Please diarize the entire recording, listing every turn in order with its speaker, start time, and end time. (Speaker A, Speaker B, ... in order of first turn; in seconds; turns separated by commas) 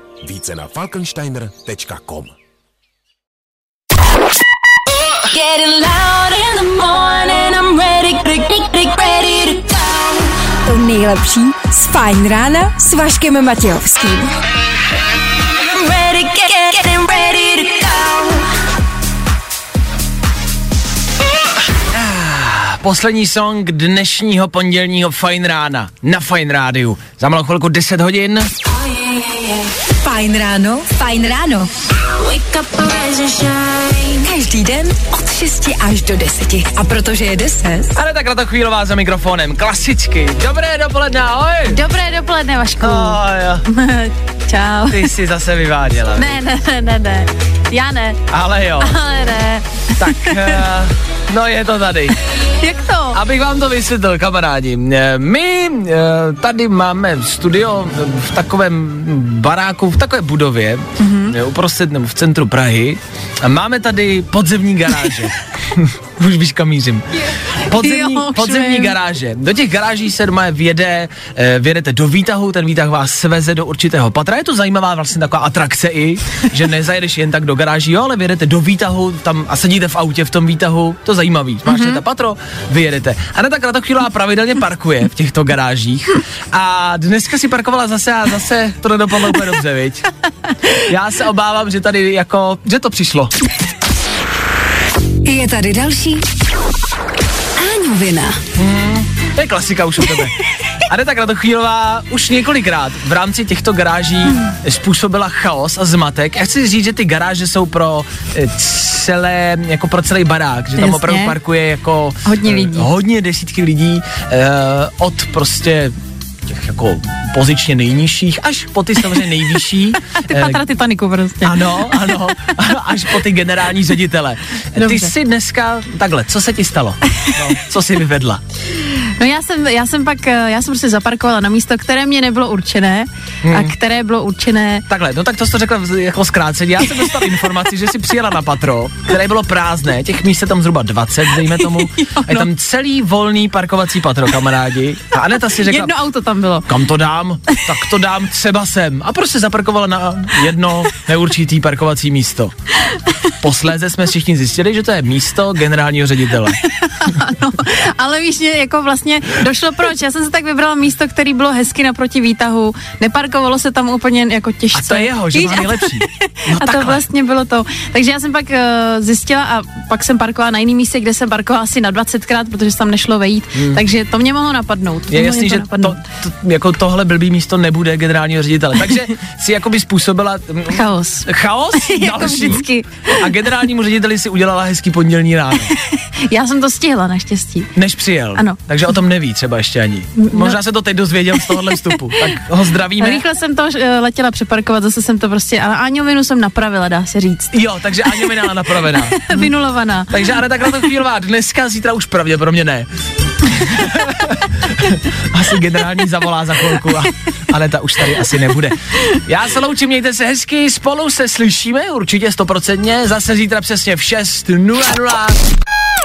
Speaker A: 0.2-2.3, Speaker B: 5.3-10.5, Speaker C: 10.6-14.3, Speaker B: 15.6-18.5, Speaker D: 21.9-28.5, Speaker C: 29.9-31.7, Speaker B: 32.2-34.1, Speaker C: 34.0-37.9, Speaker D: 37.9-41.8, Speaker E: 41.7-45.1, Speaker D: 42.8-43.6, Speaker D: 44.9-46.4, Speaker E: 46.1-48.2, Speaker D: 48.3-48.9, Speaker E: 48.8-50.5, Speaker D: 50.0-52.2, Speaker E: 52.5-53.2, Speaker D: 53.1-67.0, Speaker E: 61.0-61.4, Speaker D: 67.6-90.0, Speaker E: 67.7-69.0, Speaker E: 81.7-82.0, Speaker D: 90.8-93.3, Speaker C: 95.2-96.2, Speaker C: 97.6-98.4, Speaker D: 98.5-115.9, Speaker E: 110.8-111.4, Speaker E: 112.2-112.9, Speaker D: 116.5-120.6, Speaker E: 120.2-122.2, Speaker D: 121.4-128.4, Speaker E: 124.8-125.1, Speaker E: 128.9-134.8, Speaker D: 133.4-133.7, Speaker D: 134.9-145.9, Speaker E: 141.4-142.5, Speaker E: 145.6-146.7, Speaker D: 146.7-152.5, Speaker D: 153.4-156.6, Speaker E: 156.6-176.0, Speaker D: 164.7-167.0, Speaker D: 173.5-173.8, Speaker D: 175.1-185.7, Speaker E: 180.7-183.2, Speaker E: 185.7-187.7, Speaker D: 187.7-193.2, Speaker E: 190.2-190.6, Speaker E: 191.4-192.4, Speaker E: 193.0-197.5, Speaker D: 197.5-199.5, Speaker E: 198.1-200.2, Speaker D: 200.1-202.9, Speaker D: 203.4-215.4